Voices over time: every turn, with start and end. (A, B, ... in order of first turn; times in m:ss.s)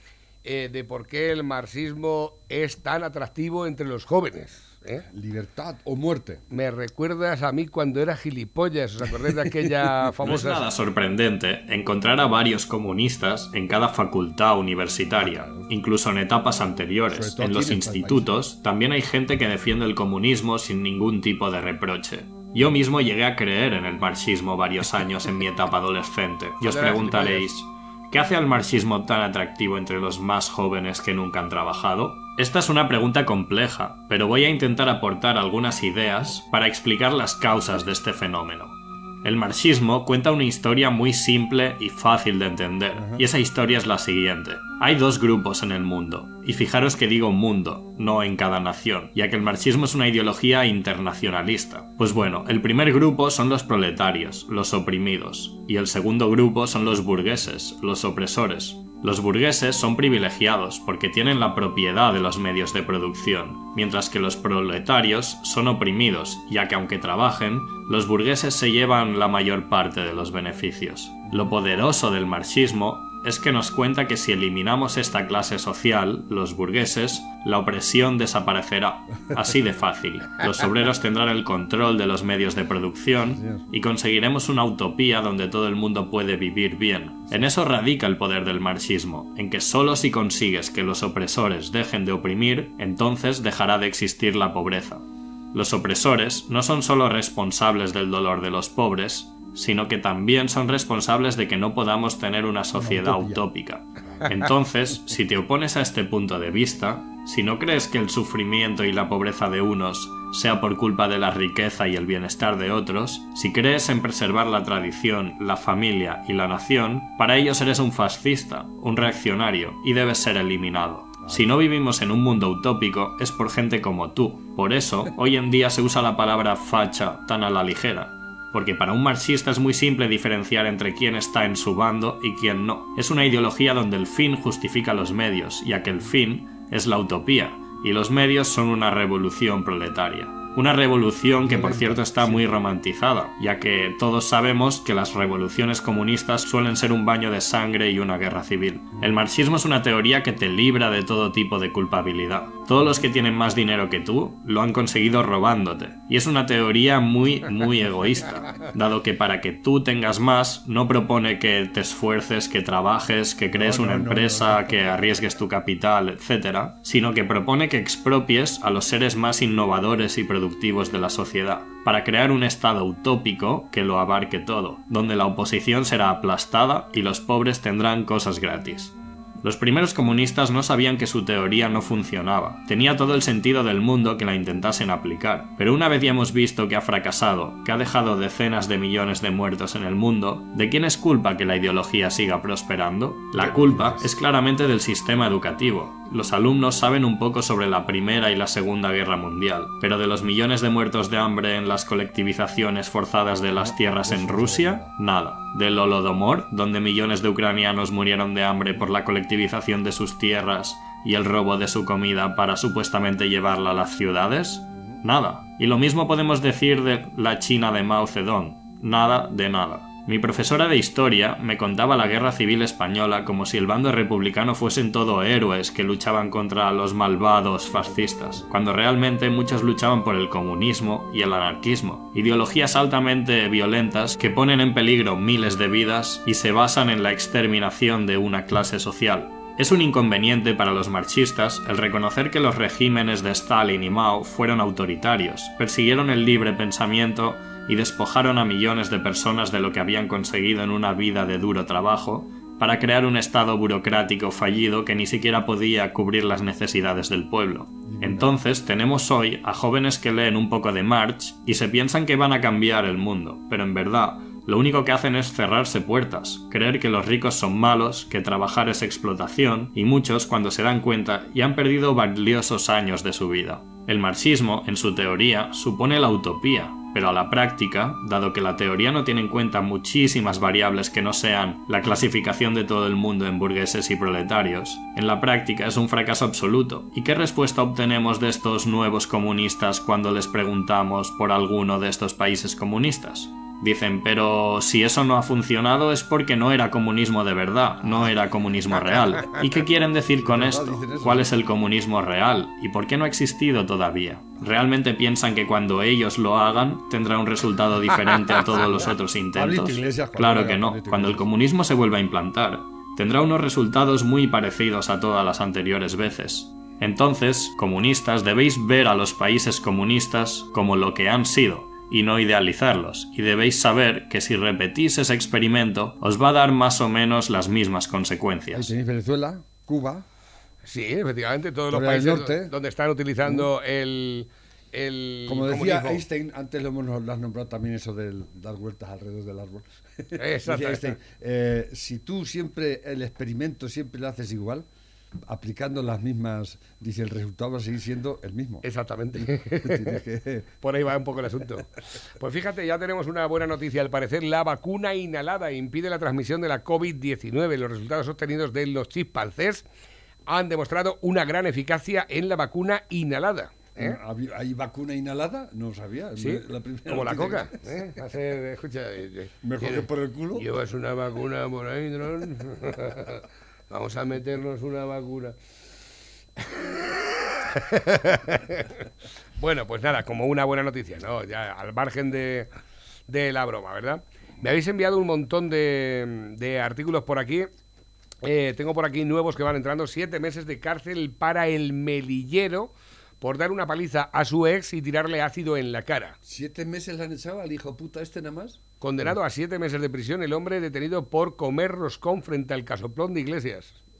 0:00.4-0:05.0 A
0:05.1-0:06.4 B
0:06.5-0:10.6 A
0:10.2-5:28.7 C
0:15.2-0:15.7 B
0:17.1-0:18.3 B
0:26.6-0:27.5 A
0:42.9-0:43.2 B
1:11.3-1:11.5 B
1:23.2-1:23.6 B
1:27.3-1:27.6 B
1:42.7-1:43.4 B
1:44.0-1:44.4 B
2:01.2-2:01.6 B
2:21.4-2:22.6 B
2:32.8-2:33.0 B
2:43.5-2:45.4 B
3:13.3-3:14.2 B
3:23.5-3:24.9 B
3:34.7-3:35.0 B
3:47.8-3:48.4 B
4:17.8-4:18.3 B
5:00.2-5:01.4 B
5:08.7-5:11.3 B
5:28.5-5:30.0 B
5:30.6-5:36.0 A
5:31.7-5:32.5 B
5:35.3-5:44.7 B
5:40.1-5:40.9 A
5:45.2-5:50.5 B
5:48.6-5:50.0 A
5:50.6-5:59.6 A
6:00.3-6:04.0 A
6:03.8-6:07.9 B
6:06.2-6:15.4 A
6:09.4-6:10.5 B
6:17.4-6:18.8 A
6:19.4-6:22.5 A
6:23.1-6:27.5 A
6:28.2-6:36.2 A
6:36.2-6:39.2 B
6:38.8-6:43.8 A